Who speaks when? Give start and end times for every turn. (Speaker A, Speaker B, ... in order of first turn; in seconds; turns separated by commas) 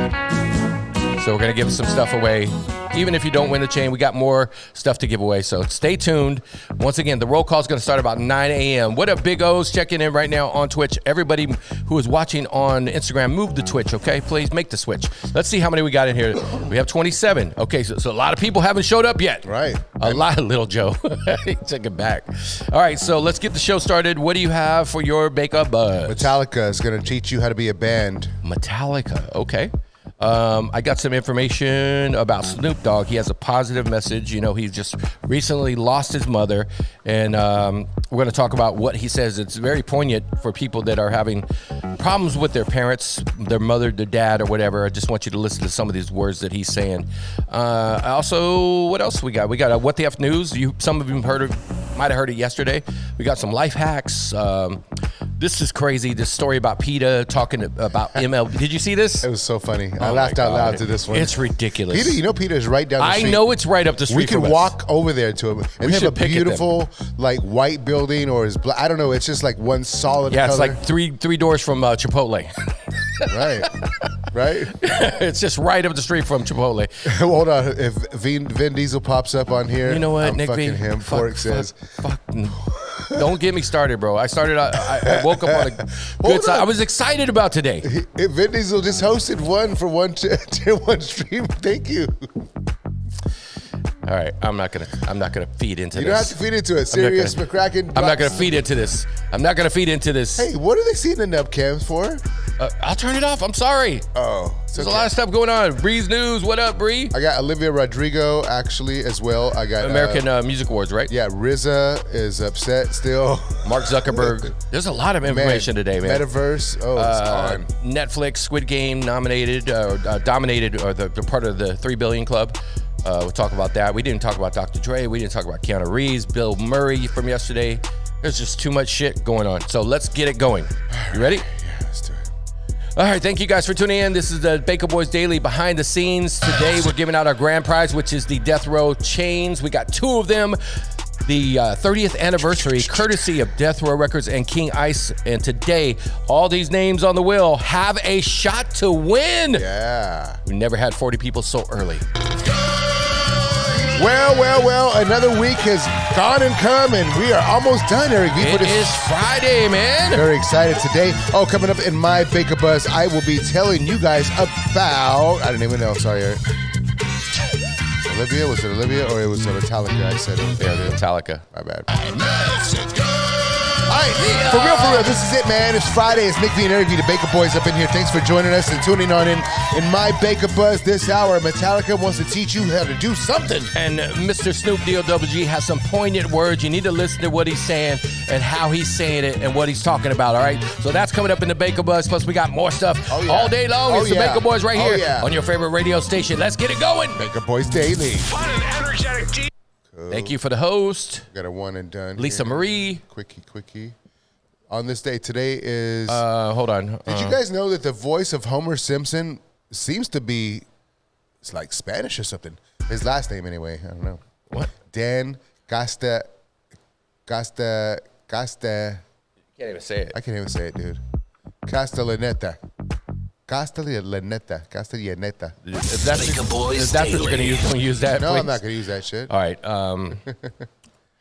Speaker A: 1.1-26.3, Speaker B: 19.4-20.2, Speaker B: 26.0-28.3, Speaker A: 28.4-54.8, Speaker A: 55.4-59.3, Speaker B: 59.2-61.4, Speaker A: 60.0-62.2, Speaker B: 61.9-63.5, Speaker A: 63.0-64.7, Speaker B: 64.1-70.8, Speaker A: 65.8-66.7, Speaker A: 70.3-74.2, Speaker B: 73.3-73.7, Speaker B: 74.3-74.7, Speaker A: 74.7-76.9, Speaker B: 77.1-81.8, Speaker A: 79.8-87.9, Speaker B: 82.9-83.2, Speaker B: 84.9-86.7, Speaker B: 87.8-92.5, Speaker A: 94.0-96.4, Speaker B: 95.9-98.7, Speaker A: 96.9-97.4, Speaker A: 97.9-100.5, Speaker B: 100.4-102.2, Speaker A: 102.6-104.1, Speaker B: 104.1-105.1, Speaker A: 104.7-107.1, Speaker B: 107.1-110.2, Speaker A: 109.8-111.1, Speaker B: 111.1-114.4, Speaker A: 113.6-116.3, Speaker B: 115.2-117.6, Speaker A: 116.9-131.5, Speaker B: 130.9-132.3, Speaker A: 132.9-140.6, Speaker A: 141.2-149.7, Speaker B: 149.5-150.4, Speaker A: 150.4-152.1, Speaker B: 153.9-159.0, Speaker A: 158.4-160.2, Speaker B: 160.1-166.4, Speaker B: 168.0-171.0, Speaker A: 170.6-171.4, Speaker B: 171.5-172.1, Speaker B: 173.8-183.7, Speaker A: 174.2-175.2, Speaker A: 183.7-197.2, Speaker B: 193.1-195.3, Speaker B: 197.2-198.3, Speaker C: 198.2-199.5, Speaker B: 199.9-200.3, Speaker A: 200.1-201.2, Speaker B: 201.3-203.9, Speaker A: 202.2-203.0, Speaker B: 204.7-206.2, Speaker A: 206.1-207.4, Speaker B: 207.1-210.6, Speaker B: 211.4-214.2, Speaker B: 214.8-216.3, Speaker B: 217.3-219.0, Speaker A: 219.6-220.2, Speaker B: 220.1-221.0, Speaker B: 221.7-222.6, Speaker B: 223.5-225.6, Speaker A: 225.6-228.6, Speaker C: 226.1-227.7, Speaker B: 228.1-229.3, Speaker A: 229.3-230.2, Speaker B: 230.3-230.6